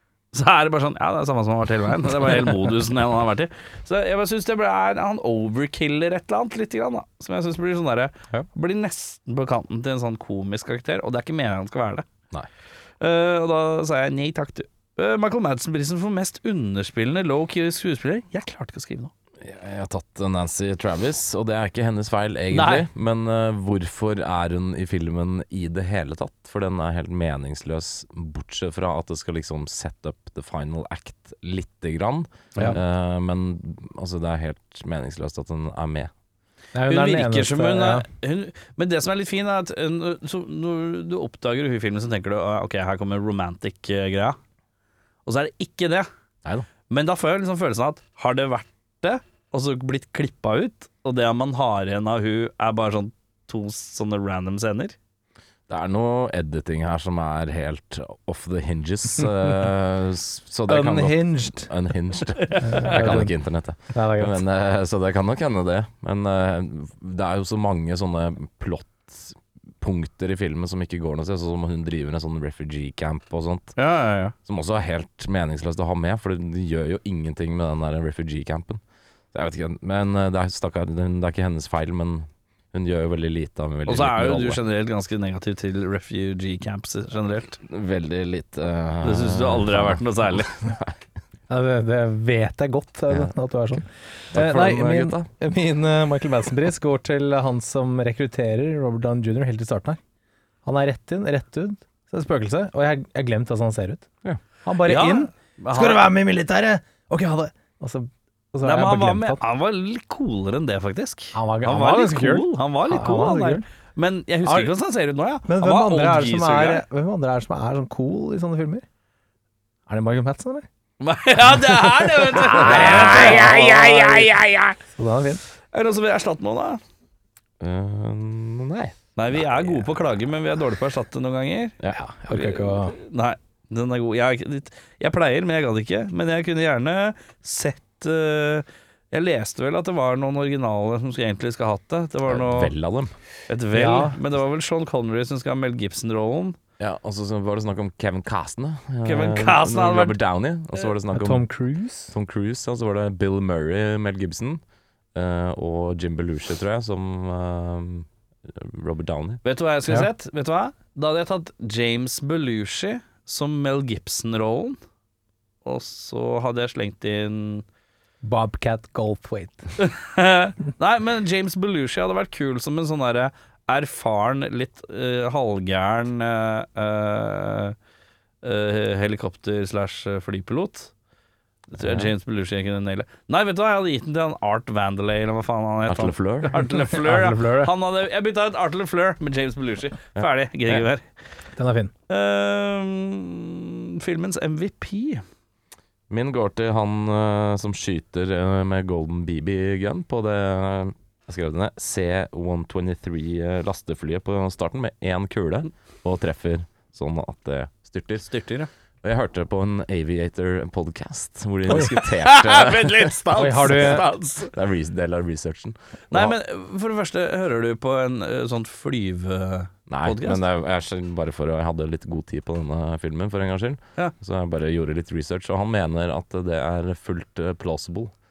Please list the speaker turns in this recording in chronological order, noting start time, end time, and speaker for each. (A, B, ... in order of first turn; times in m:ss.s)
0:00.3-0:12.0 A
0:13.0-0:19.1 A
0:19.4-0:36.1 B
0:22.5-0:22.8 A
0:36.7-0:38.1 C
0:36.9-0:44.4 A
0:45.2-0:46.1 A
0:46.9-0:54.9 A
0:55.7-1:13.8 B
1:00.7-1:01.7 C
1:02.4-1:02.9 A
1:02.6-1:03.4 C
1:03.9-1:04.4 C
1:13.8-1:14.3 A
1:14.4-1:18.8 B
1:19.3-1:24.6 B
1:23.9-1:27.6 A
1:27.6-1:31.0 B
1:29.0-1:30.5 A
1:31.5-1:40.0 C
1:34.3-1:35.3 B
1:40.6-1:44.1 C
1:44.6-1:49.4 C
1:44.8-1:46.1 A
1:48.6-1:56.8 A
1:51.3-1:53.6 C
1:54.4-1:54.7 C
1:55.5-1:58.8 C
1:59.9-2:00.6 C
2:01.0-2:04.8 A
2:01.5-2:04.2 C
2:02.5-2:04.0 B
2:04.9-2:05.4 C
2:05.7-2:06.8 A
2:07.6-2:09.7 B
2:09.2-2:11.7 A
2:11.9-2:13.0 C
2:12.3-2:22.7 A
2:22.2-2:23.1 B
2:23.5-2:26.6 A
2:23.7-2:24.2 C
2:26.8-2:31.4 B
2:29.0-2:30.2 A
2:31.1-2:32.1 C
2:32.1-2:34.6 B
2:35.1-2:39.4 B
2:39.4-2:44.8 A
2:45.6-2:47.6 A
2:48.2-2:49.7 C
2:49.8-2:57.8 A
2:58.4-3:00.9 A
3:01.7-3:11.1 A
3:01.8-3:02.1 B
3:05.9-3:06.6 B
3:06.8-3:07.7 C
3:10.2-3:10.8 B
3:11.6-3:11.9 C
3:12.1-3:15.2 A
3:16.1-3:28.3 B
3:28.3-3:28.7 A
3:29.0-3:36.3 B
3:31.7-3:34.5 A
3:33.3-3:34.0 C
3:36.1-3:40.4 A
3:39.9-3:48.1 B